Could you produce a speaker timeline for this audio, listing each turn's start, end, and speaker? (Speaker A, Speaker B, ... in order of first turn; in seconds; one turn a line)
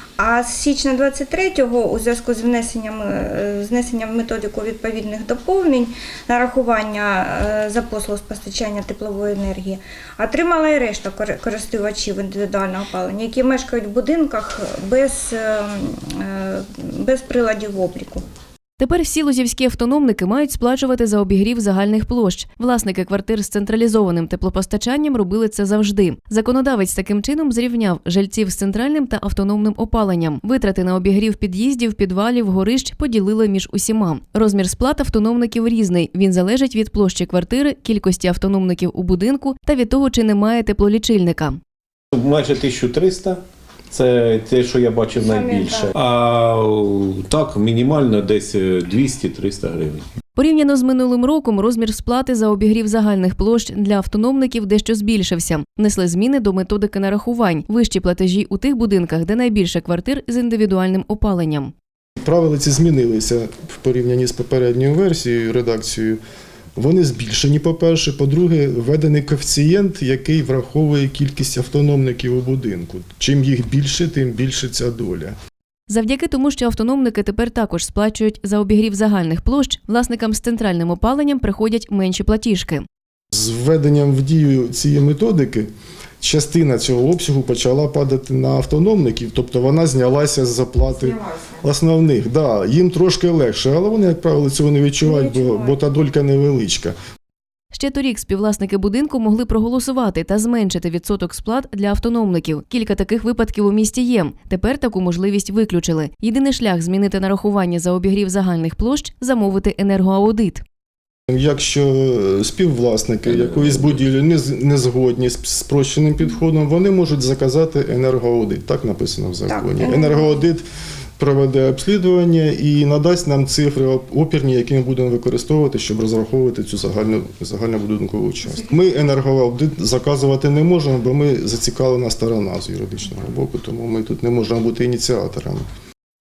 Speaker A: 0.2-18.2
Speaker B: 18.8-41.6
Speaker C: 42.1-50.1
Speaker A: 45.2-45.9
Speaker B: 50.4-61.7
Speaker D: 62.2-66.2
Speaker D: 66.8-75.3
Speaker B: 75.9-82.8
Speaker D: 83.3-85.7
Speaker D: 86.2-96.9
Speaker A: 95.0-95.8
Speaker B: 97.7-110.6
Speaker D: 111.3-120.6
Speaker C: 113.2-114.0
Speaker A: 119.5-120.3
Speaker D: 121.2-135.7